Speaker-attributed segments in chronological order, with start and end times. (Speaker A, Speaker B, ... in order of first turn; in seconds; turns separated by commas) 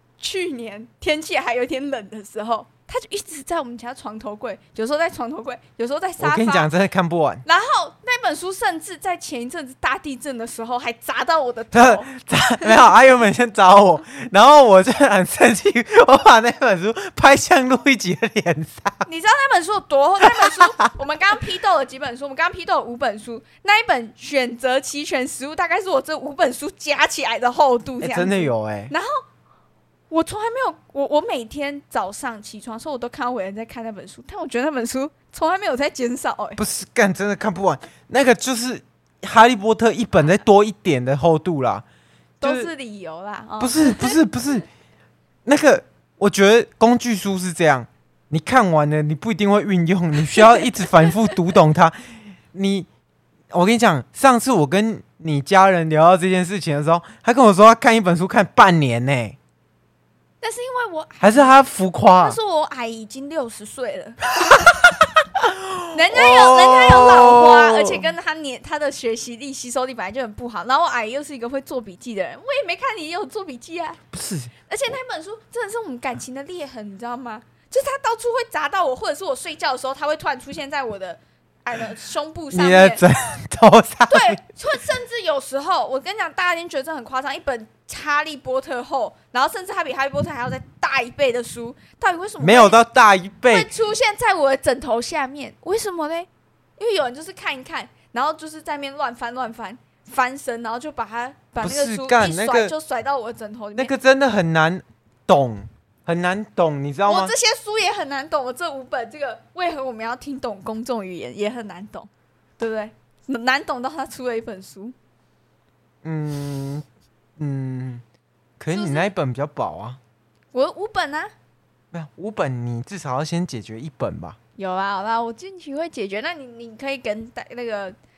Speaker A: 0.2-6.7, Speaker B: 6.2-7.4, Speaker A: 7.4-12.1, Speaker B: 11.7-19.0, Speaker A: 19.0-29.2, Speaker B: 20.2-20.9, Speaker B: 28.0-28.9, Speaker A: 30.1-36.6, Speaker B: 36.6-41.8, Speaker B: 42.4-42.7, Speaker A: 42.4-44.2, Speaker B: 43.6-44.7, Speaker B: 45.5-52.9, Speaker A: 50.4-50.6, Speaker B: 53.5-59.4, Speaker A: 60.4-61.5, Speaker B: 61.2-62.4, Speaker A: 62.2-64.7, Speaker B: 64.4-68.1, Speaker A: 65.9-74.0, Speaker B: 74.1-74.5, Speaker A: 74.7-83.0, Speaker B: 82.5-84.4, Speaker A: 84.1-92.8, Speaker B: 92.4-93.7, Speaker A: 93.5-103.9, Speaker B: 101.6-102.7, Speaker B: 103.7-107.3, Speaker A: 107.1-114.9, Speaker B: 116.0-116.8, Speaker B: 117.4-118.0, Speaker B: 118.6-120.0, Speaker A: 118.7-119.1, Speaker A: 120.5-121.3, Speaker B: 121.9-124.4, Speaker A: 124.6-128.0